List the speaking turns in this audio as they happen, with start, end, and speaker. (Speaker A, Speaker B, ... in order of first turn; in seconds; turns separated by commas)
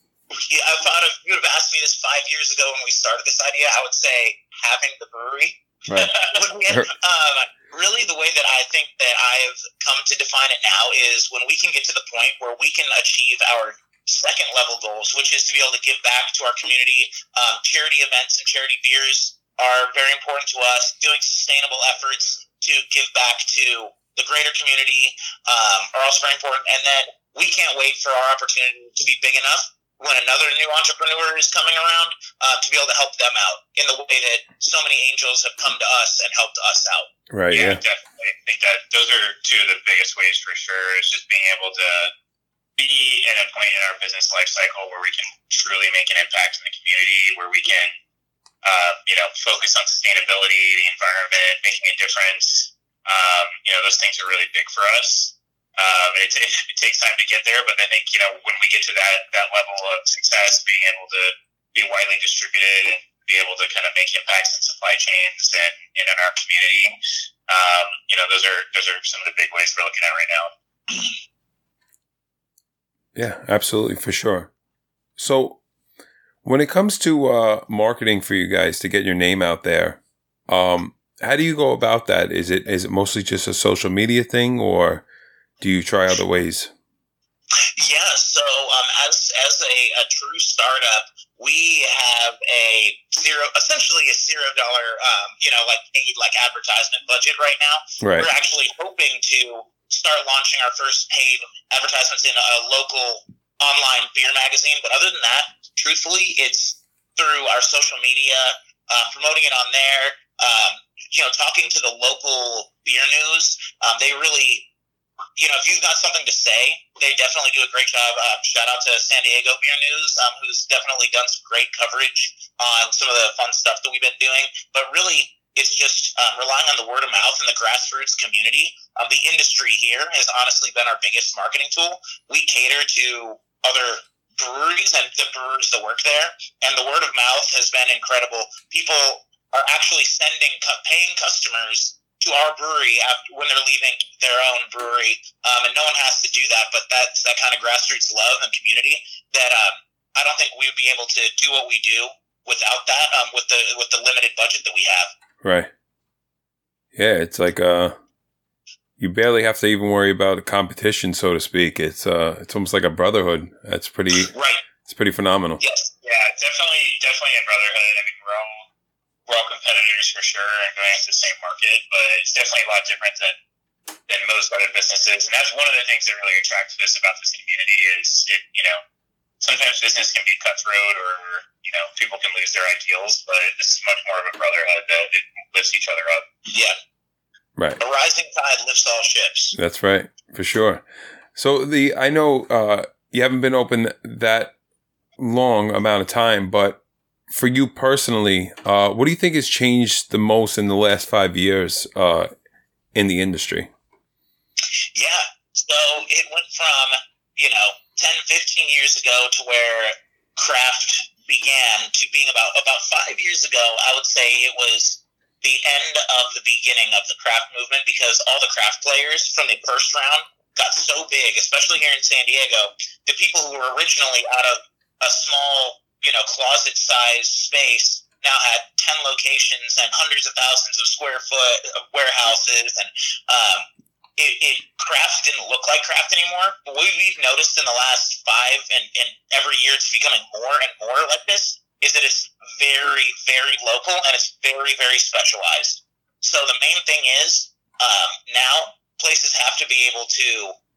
Speaker A: 0.3-37.1, Speaker B: 37.3-37.8, Speaker C: 37.5-42.1, Speaker C: 42.8-47.9, Speaker C: 48.6-67.0, Speaker C: 67.5-71.0, Speaker B: 73.1-74.5, Speaker B: 75.2-75.6, Speaker B: 76.4-85.0, Speaker B: 85.6-86.7, Speaker A: 87.8-114.7, Speaker B: 98.0-98.3, Speaker A: 115.4-155.1, Speaker B: 155.4-155.7, Speaker B: 156.9-158.0, Speaker B: 159.0-164.3, Speaker A: 164.3-164.6, Speaker B: 164.8-165.6, Speaker A: 165.6-165.9, Speaker C: 166.0-168.7, Speaker C: 169.3-173.3, Speaker C: 174.1-178.8, Speaker C: 179.4-186.2, Speaker A: 186.5-186.8, Speaker A: 187.8-189.6, Speaker B: 189.5-194.5, Speaker B: 195.2-202.3, Speaker B: 202.9-203.7, Speaker A: 204.9-250.5